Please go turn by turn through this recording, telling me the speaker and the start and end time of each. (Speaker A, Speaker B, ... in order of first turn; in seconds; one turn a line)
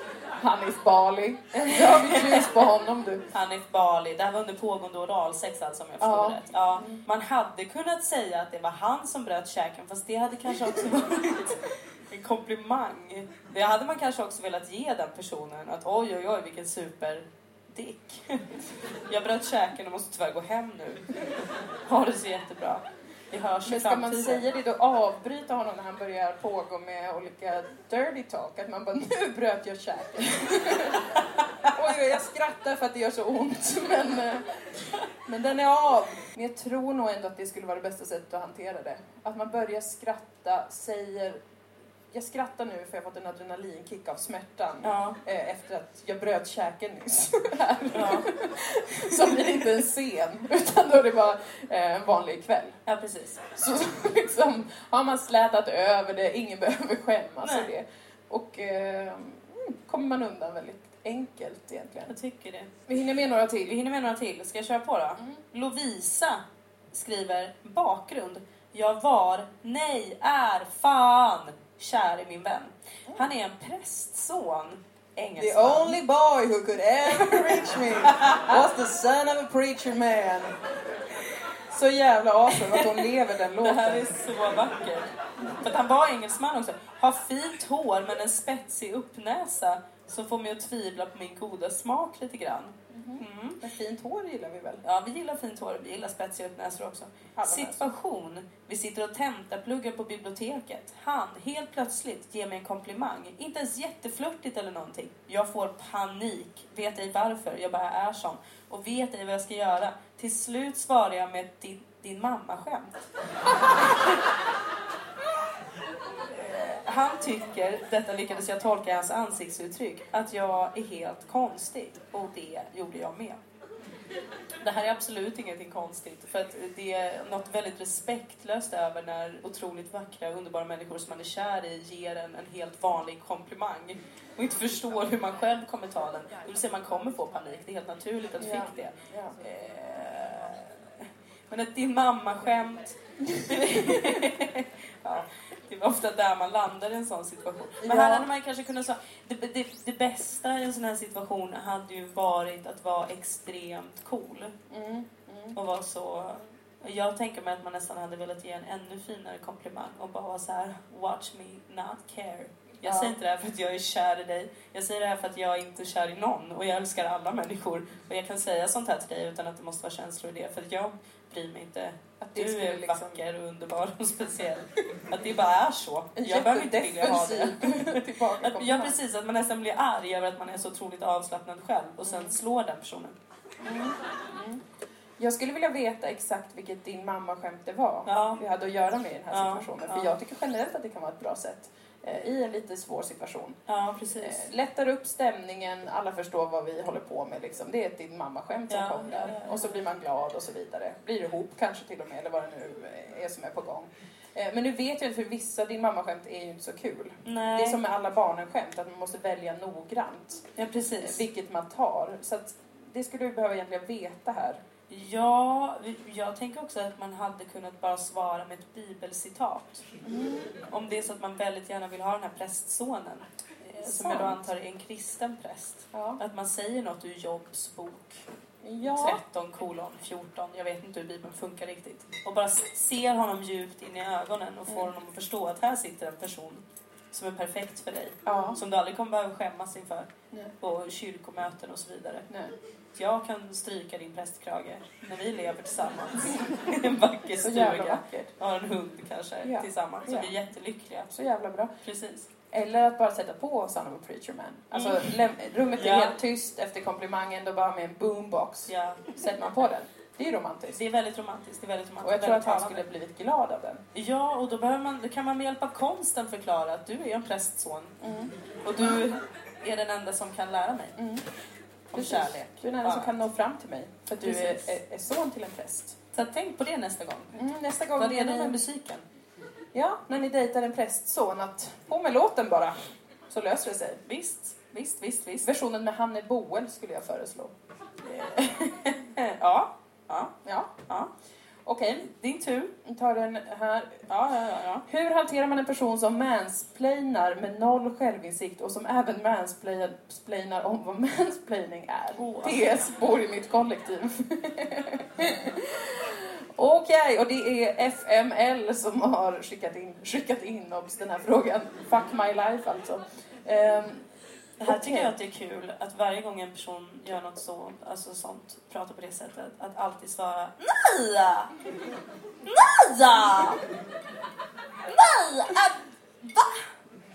Speaker A: 0.4-3.2
Speaker B: 1.5-2.6
Speaker B: 3.3-18.5
Speaker A: 6.0-7.0
Speaker B: 19.1-21.1
Speaker B: 21.9-24.5
Speaker A: 23.7-34.7
Speaker A: 35.2-41.4
Speaker A: 42.1-52.8
Speaker B: 44.8-45.2
Speaker B: 47.9-48.3
Speaker B: 49.0-49.4
Speaker B: 52.9-53.4
Speaker A: 53.5-62.1
Speaker B: 57.4-57.7
Speaker B: 62.1-62.7
Speaker A: 62.9-63.8
Speaker B: 63.6-66.4
Speaker A: 65.2-65.4
Speaker B: 66.9-76.0
Speaker A: 75.4-80.6
Speaker B: 77.1-78.6
Speaker A: 81.7-84.2
Speaker B: 83.6-93.6
Speaker A: 92.9-94.8
Speaker B: 94.8-113.0
Speaker A: 97.4-97.9
Speaker B: 116.3-123.4
Speaker B: 124.6-154.6
Speaker A: 138.4-139.3
Speaker A: 143.7-144.2
Speaker A: 147.8-148.3
Speaker A: 154.7-155.6
Speaker B: 155.6-183.2
Speaker A: 162.8-163.2
Speaker A: 172.2-173.2
Speaker A: 176.2-178.9
Speaker A: 182.1-182.4
Speaker A: 183.6-184.6
Speaker A: 185.2-193.6
Speaker B: 188.1-188.4
Speaker B: 189.3-190.1
Speaker B: 193.7-194.5
Speaker A: 194.2-210.5
Speaker B: 198.7-199.8
Speaker B: 207.2-207.8
Speaker B: 210.6-211.2
Speaker A: 211.0-214.6
Speaker B: 214.9-219.8
Speaker A: 220.0-220.5
Speaker B: 220.7-228.2
Speaker A: 223.8-224.4
Speaker A: 225.9-226.2
Speaker A: 228.6-229.2
Speaker B: 228.8-242.3
Speaker A: 238.2-238.6
Speaker B: 242.9-251.1
Speaker A: 247.4-248.3
Speaker A: 249.4-250.3
Speaker A: 251.1-251.7
Speaker B: 251.8-252.3
Speaker A: 252.5-260.8
Speaker B: 254.7-255.1
Speaker B: 255.8-256.2
Speaker B: 258.7-259.1
Speaker B: 260.7-262.9
Speaker A: 262.0-263.8
Speaker B: 263.9-268.0
Speaker A: 268.0-269.0
Speaker B: 268.6-270.9
Speaker A: 271.0-271.2
Speaker B: 271.9-273.1
Speaker A: 271.9-276.0
Speaker B: 274.2-274.7
Speaker B: 276.1-277.3
Speaker A: 277.4-278.6
Speaker B: 278.0-279.0
Speaker A: 279.7-282.8
Speaker A: 283.3-284.0
Speaker B: 284.1-285.5
Speaker A: 285.4-287.5
Speaker B: 288.0-290.3
Speaker A: 290.4-290.7
Speaker A: 291.7-292.1
Speaker B: 292.0-292.7
Speaker A: 292.9-294.1
Speaker B: 294.1-294.9
Speaker A: 294.9-314.0
Speaker B: 302.2-302.9
Speaker B: 314.6-321.5
Speaker A: 314.6-315.1
Speaker B: 322.4-323.6
Speaker B: 324.9-326.6